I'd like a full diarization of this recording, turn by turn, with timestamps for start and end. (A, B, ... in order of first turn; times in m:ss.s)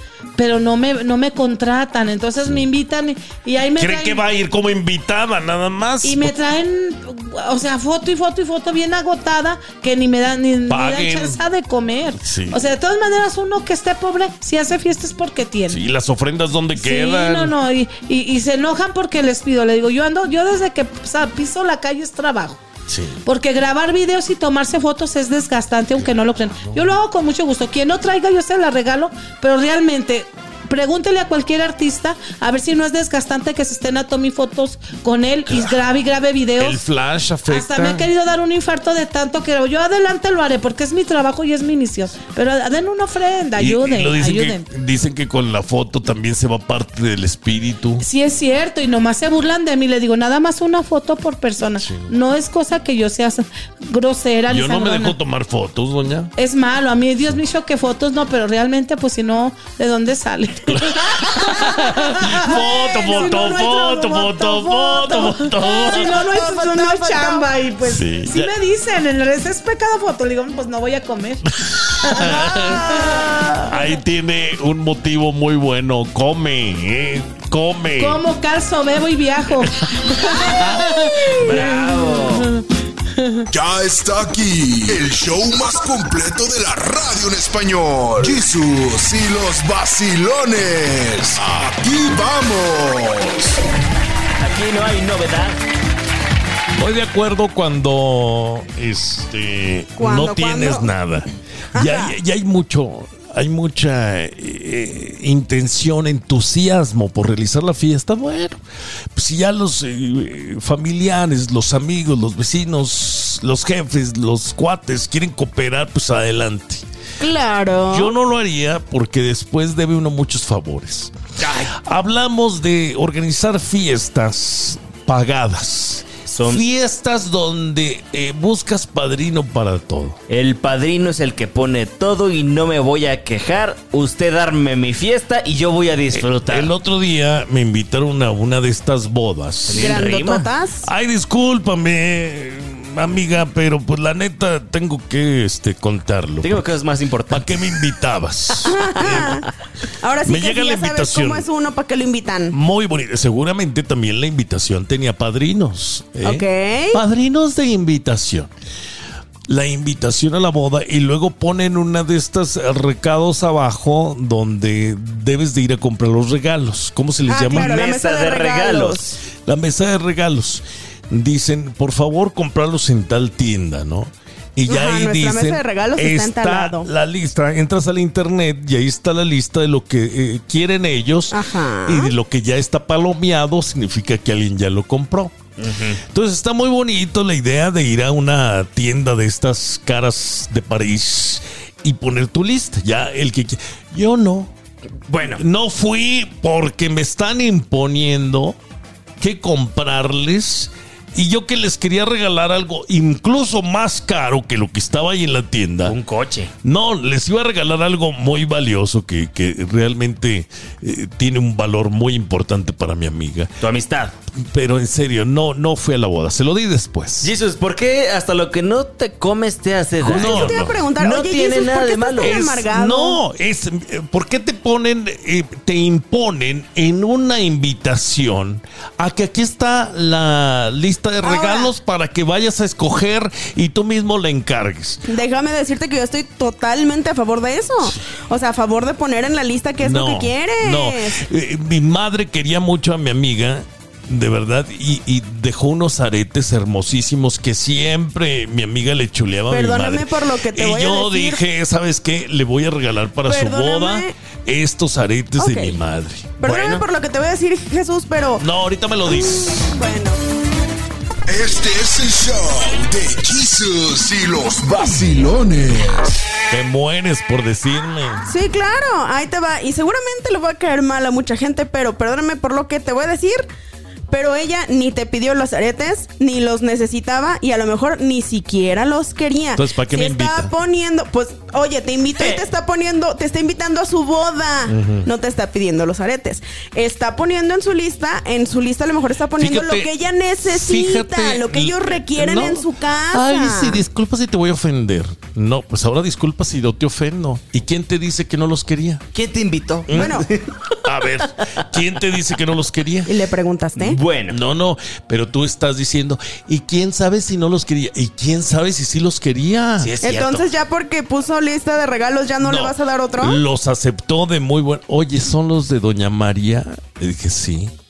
0:00.4-0:04.2 A
0:03.8-0:06.3 B
0:06.0-0:15.8 A
0:10.7-0:11.4 B
0:12.2-0:12.6 B
0:15.7-0:17.5 B
0:16.8-0:22.6 A
0:22.9-0:23.2 B
0:23.2-0:36.8 A
0:26.6-0:26.8 B
0:36.6-0:38.1 B
0:37.5-0:44.7 A
0:43.6-0:48.0 B
0:48.0-0:55.2 A
0:51.8-0:52.1 B
0:54.5-0:56.3 B
0:56.4-1:14.0 A
1:00.7-1:06.1 B
1:05.9-1:07.5 C
1:07.8-1:08.5 B
1:11.6-1:18.2 B
1:13.1-1:13.6 C
1:18.0-1:22.6 A
1:19.9-1:20.9 B
1:21.3-1:22.5 D
1:23.1-1:23.4 A
1:23.5-1:33.6 E
1:34.4-1:35.6 D
1:36.8-1:48.6 B
1:40.0-1:40.9 C
1:41.7-1:42.1 C
1:49.1-1:56.8 B
1:57.2-1:58.1 C
1:57.9-2:01.1 B
2:01.4-2:01.7 D
2:01.7-2:10.2 B
2:06.3-2:06.6 D
2:10.3-2:16.7 D
2:16.1-2:20.2 B
2:19.7-2:20.5 D
2:19.7-2:20.9 C
2:20.8-2:26.6 B
2:26.4-2:27.6 D
2:27.3-2:29.4 B
2:28.6-2:29.5 C
2:29.0-2:29.4 D
2:30.0-2:32.6 C
2:30.2-2:31.4 B
2:32.5-2:38.5 B
2:36.2-2:37.0 C
2:39.5-2:47.8 B
2:47.3-2:49.2 C
2:47.5-2:49.1 D
2:49.4-3:05.4 B
2:54.7-2:56.9 C
3:01.3-3:02.1 C
3:05.6-3:06.0 D
3:06.0-3:14.5 B
3:15.1-3:15.4 D
3:15.3-3:18.6 B
3:19.2-3:26.0 B
3:25.8-3:26.5 D
3:26.6-3:33.6 B
3:33.6-3:34.1 D
3:34.3-3:37.3 B
3:37.2-3:42.4 D
3:40.0-3:40.8 B
3:40.0-3:43.2 C
3:42.2-3:55.0 B
3:51.2-3:51.7 C
3:55.1-4:01.2 C
3:59.8-4:16.4 B
4:09.5-4:11.4 C
4:13.2-4:14.1 C
4:15.4-4:15.8 C
4:16.4-4:18.4 C
4:16.4-4:16.8 D
4:18.4-4:19.7 B
4:19.0-4:20.2 C
4:21.2-4:26.2 E
4:26.5-4:28.2 B
4:28.2-4:33.5 C
4:34.1-4:53.8 C
4:39.6-4:40.5 B
4:44.7-4:45.1 B
4:49.4-4:49.9 B
4:50.5-4:59.0 B
4:59.1-5:00.8 D
4:59.9-5:00.2 B
4:59.9-5:00.2 C
5:00.8-5:03.1 B
5:03.0-5:04.0 C
5:03.8-5:04.4 D
5:04.3-5:09.9 B
5:09.8-5:10.5 D
5:10.0-5:13.4 C
5:12.4-5:17.7 B